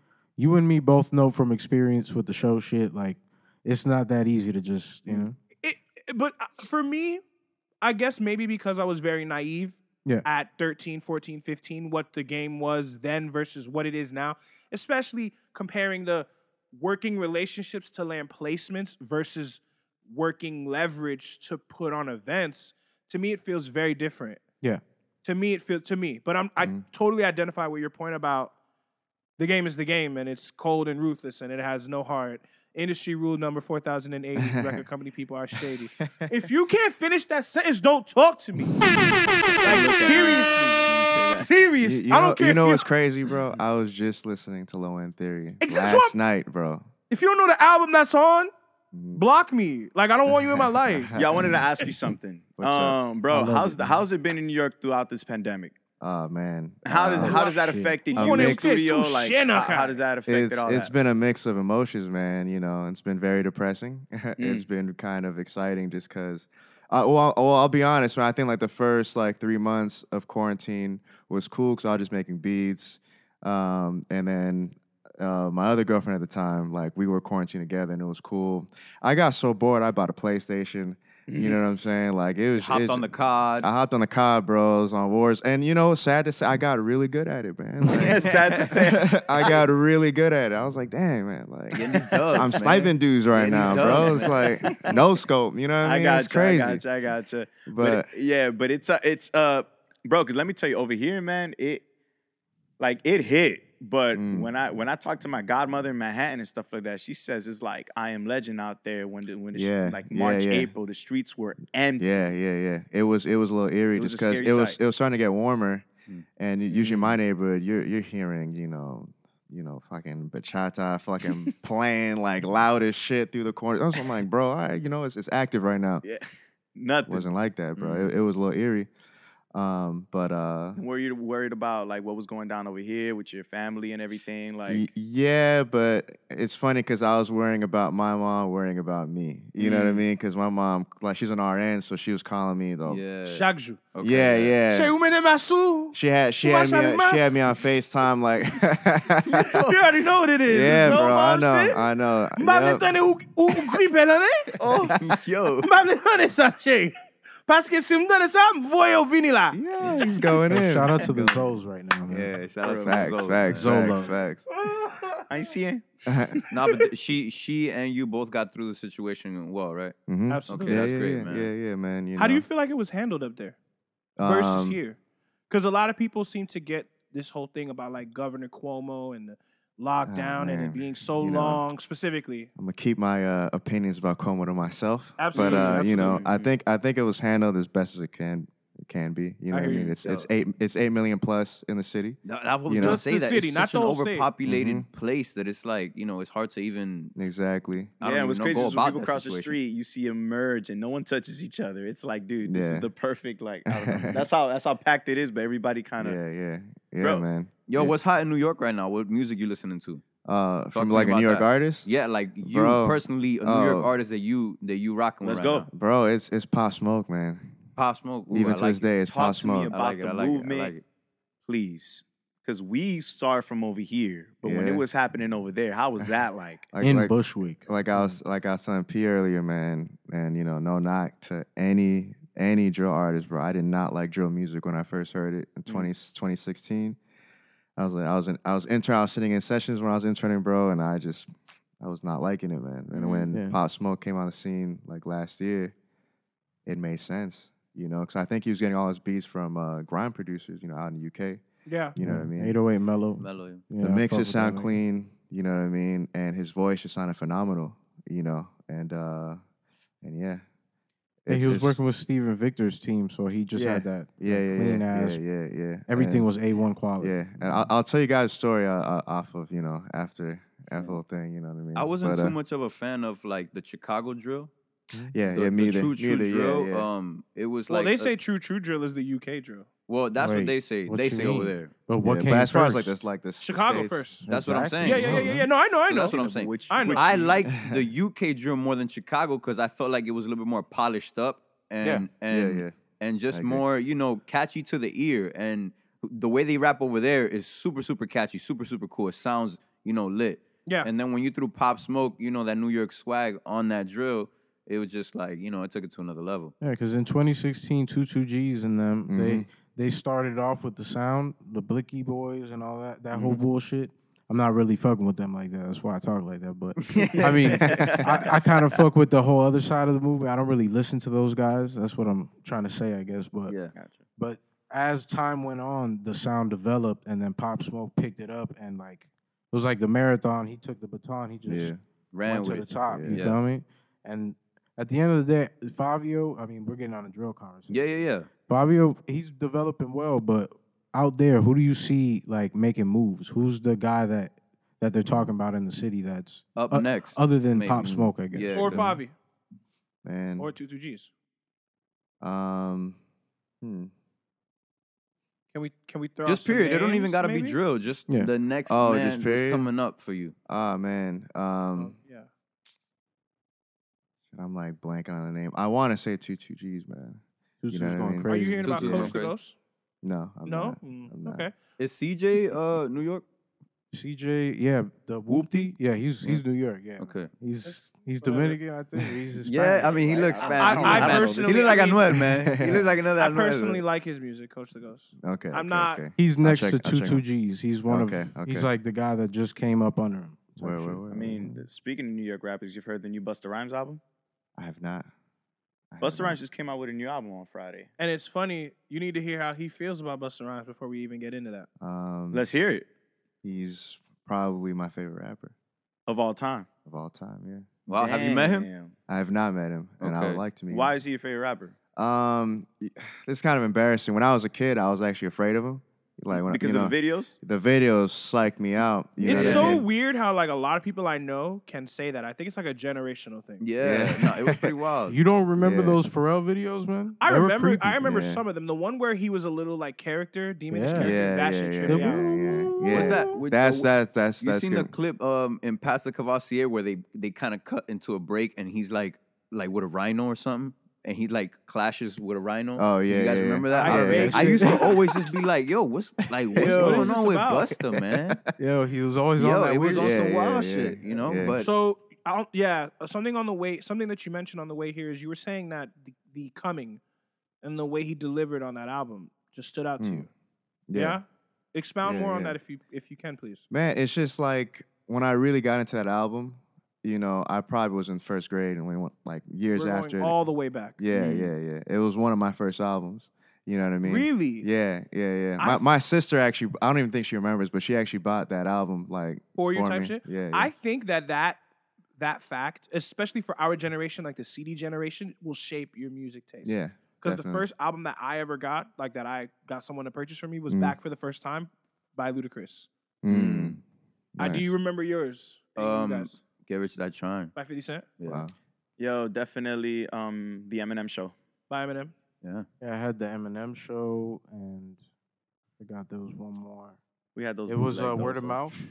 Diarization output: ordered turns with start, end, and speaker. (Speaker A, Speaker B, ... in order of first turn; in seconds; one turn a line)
Speaker A: 0.3-5.3
Speaker B: 5.6-7.2
Speaker B: 7.8-24.4
Speaker B: 25.2-28.5
Speaker C: 26.6-26.8
Speaker B: 29.4-38.9
Speaker C: 34.4-34.8
Speaker C: 36.1-36.4
Speaker D: 39.6-41.5
Speaker B: 39.6-40.9
Speaker B: 41.4-42.9
Speaker C: 41.8-46.9
Speaker B: 45.6-46.1
Speaker B: 47.1-48.5
Speaker C: 48.9-49.2
Speaker B: 49.1-51.1
Speaker C: 50.3-51.6
Speaker D: 51.1-55.8
Speaker C: 52.6-53.0
Speaker A: 53.3-54.0
Speaker C: 56.0-57.5
Speaker D: 56.8-60.9
Speaker A: 57.1-58.1
Speaker B: 58.1-59.9
Speaker C: 58.1-58.8
Speaker C: 60.3-96.8
Speaker D: 64.4-64.7
Speaker D: 81.3-81.6
Speaker E: 82.6-83.7
Speaker E: 87.9-88.7
Speaker D: 88.0-89.6
Speaker E: 91.7-94.9
Speaker D: 93.4-94.3
Speaker D: 95.8-101.8
Speaker C: 97.7-98.1
Speaker D: 102.8-112.0
Speaker C: 104.1-104.5
Speaker C: 109.5-110.7
Speaker C: 112.0-115.8
Speaker D: 114.0-114.8
Speaker C: 116.4-126.0
Speaker D: 116.7-117.2
Speaker D: 126.0-127.2
Speaker C: 127.1-128.9
Speaker E: 127.8-128.1
Speaker C: 129.5-130.8
Speaker D: 130.8-134.9
Speaker C: 134.7-143.0
Speaker D: 139.6-140.0
Speaker E: 142.8-144.5
Speaker B: 143.3-143.8
Speaker C: 144.0-144.9
Speaker B: 144.7-147.3
Speaker C: 145.9-149.6
Speaker E: 149.3-149.8
Speaker B: 149.5-151.8
Speaker C: 150.5-152.9
Speaker B: 152.4-154.6
Speaker E: 154.6-155.7
Speaker B: 155.6-156.9
Speaker B: 157.4-159.6
Speaker C: 159.5-161.2
Speaker A: 160.4-162.4
Speaker E: 161.1-161.5
Speaker E: 162.1-163.9
Speaker D: 162.6-163.2
Speaker C: 162.8-164.4
Speaker A: 163.5-164.1
Speaker B: 164.5-165.4
Speaker D: 165.3-165.8
Speaker C: 166.1-166.3
Speaker E: 166.5-169.9
Speaker C: 170.1-172.4
Speaker B: 170.3-170.9
Speaker E: 170.5-171.5
Speaker B: 172.2-173.6
Speaker C: 174.2-174.8
Speaker B: 174.2-175.0
Speaker B: 175.5-182.5
Speaker C: 180.0-181.6
Speaker C: 182.6-193.0
Speaker B: 185.2-186.5
Speaker D: 185.3-186.4
Speaker B: 189.5-189.9
Speaker E: 192.2-197.1
Speaker B: 192.8-194.3
Speaker C: 194.4-194.8
Speaker C: 197.2-197.9
Speaker D: 198.0-206.2
Speaker E: 198.0-199.6
Speaker C: 202.4-202.9
Speaker C: 203.7-204.3
Speaker C: 206.0-208.0
Speaker E: 207.7-210.0
Speaker C: 210.2-211.9
Speaker E: 210.7-215.7
Speaker C: 212.4-213.9
Speaker D: 215.2-215.7
Speaker C: 215.7-217.6
Speaker E: 217.8-218.9
Speaker C: 218.3-219.7
Speaker D: 219.0-220.7
Speaker E: 219.7-220.8
Speaker D: 221.4-226.7
Speaker C: 224.4-224.8
Speaker C: 226.7-237.0
Speaker A: 226.8-227.7
Speaker C: 237.8-245.7
Speaker D: 242.9-243.2
Speaker A: 243.3-243.6
Speaker C: 246.7-251.4
Speaker B: 251.7-251.9
Speaker C: 251.9-252.6
Speaker A: 252.0-254.8
Speaker E: 253.2-253.6
Speaker C: 253.8-259.4
Speaker C: 260.0-260.4
Speaker C: 261.2-261.8
Speaker A: 261.3-265.2
Speaker C: 263.5-266.3
Speaker A: 265.9-267.5
Speaker C: 267.0-272.4
Speaker E: 271.7-274.5
Speaker C: 275.1-276.9
Speaker E: 275.3-278.1
Speaker B: 277.7-279.7
Speaker E: 279.9-281.7
Speaker A: 280.2-282.9
Speaker C: 282.0-284.0
Speaker B: 283.4-284.2
Speaker A: 284.2-285.5
Speaker E: 284.3-306.5
Speaker B: 284.8-287.3
Speaker D: 286.1-287.5
Speaker C: 287.5-287.9
Speaker C: 292.3-292.8
Speaker C: 293.3-293.6
Speaker A: 306.6-323.6
Speaker C: 309.1-309.5
Speaker E: 316.8-317.7
Speaker D: 317.3-318.1
Speaker C: 317.6-317.9
Speaker E: 323.5-323.7
Speaker D: 323.7-324.0
Speaker A: 324.1-337.8
Speaker C: 331.4-331.8
Speaker E: 332.1-333.4
Speaker C: 332.9-333.2
Speaker E: 337.7-338.3
Speaker A: 338.5-349.0
Speaker C: 345.0-345.3
Speaker E: 346.6-348.9
Speaker B: 348.5-349.1
Speaker C: 350.0-350.5
Speaker B: 350.4-351.1
Speaker C: 352.2-353.0
Speaker C: 353.6-353.9
Speaker B: 355.5-357.6
Speaker E: 356.2-360.3
Speaker C: 358.7-359.7
Speaker C: 360.5-361.9
Speaker B: 361.8-362.3
Speaker C: 364.3-368.3
Speaker A: 367.6-368.9
Speaker B: 368.2-369.6
Speaker E: 368.6-369.3
Speaker C: 368.8-369.1
Speaker C: 370.0-371.5
Speaker B: 370.4-371.5
Speaker E: 371.8-373.2
Speaker A: 373.9-380.0
Speaker E: 375.3-376.4
Speaker E: 377.0-377.3
Speaker B: 377.6-378.6
Speaker E: 379.4-383.8
Speaker D: 379.9-382.0
Speaker B: 380.5-382.0
Speaker C: 382.4-382.9
Speaker B: 383.2-386.0
Speaker C: 385.2-387.2
Speaker A: 386.2-391.6
Speaker C: 387.9-388.7
Speaker C: 390.6-391.4
Speaker D: 391.1-394.0
Speaker C: 394.6-395.1
Speaker C: 395.9-396.4
Speaker D: 396.0-397.9
Speaker B: 398.0-401.7
Speaker C: 401.8-402.5
Speaker D: 402.3-402.9
Speaker C: 403.4-405.5
Speaker D: 406.1-406.7
Speaker C: 406.8-407.7
Speaker E: 407.9-408.7
Speaker D: 408.0-408.9
Speaker C: 409.1-410.9
Speaker E: 410.0-410.4
Speaker D: 410.7-411.8
Speaker C: 411.9-419.8
Speaker D: 416.3-417.4
Speaker B: 419.2-423.6
Speaker E: 419.2-419.8
Speaker E: 423.6-425.2
Speaker C: 423.8-424.7
Speaker A: 425.1-428.0
Speaker C: 425.6-426.0
Speaker B: 427.2-432.2
Speaker C: 428.0-428.4
Speaker A: 430.7-431.1
Speaker C: 431.0-434.9
Speaker A: 431.9-433.4
Speaker E: 432.9-448.4
Speaker C: 442.8-444.7
Speaker B: 443.7-444.9
Speaker A: 443.9-444.9
Speaker C: 446.6-447.0
Speaker B: 446.6-447.7
Speaker C: 447.9-448.2
Speaker A: 448.6-450.2
Speaker E: 449.4-451.7
Speaker C: 450.0-451.6
Speaker B: 451.6-457.0
Speaker B: 457.6-460.3
Speaker C: 460.0-460.3
Speaker C: 460.9-461.2
Speaker B: 460.9-463.6
Speaker C: 462.0-462.6
Speaker C: 463.7-470.4
Speaker B: 469.7-471.0
Speaker C: 471.0-480.7
Speaker E: 471.1-471.5
Speaker B: 474.0-474.7
Speaker B: 475.6-475.9
Speaker B: 479.6-481.6
Speaker B: 482.2-492.9
Speaker C: 486.6-487.6
Speaker C: 490.7-490.9
Speaker C: 493.2-493.8
Speaker E: 493.3-493.8
Speaker C: 494.3-494.7
Speaker B: 494.4-496.4
Speaker E: 495.8-497.5
Speaker B: 497.5-498.1
Speaker C: 498.3-498.5
Speaker D: 499.0-501.3
Speaker B: 501.7-502.1
Speaker A: 502.8-505.0
Speaker A: 505.8-507.0
Speaker D: 507.3-508.7
Speaker A: 507.6-508.7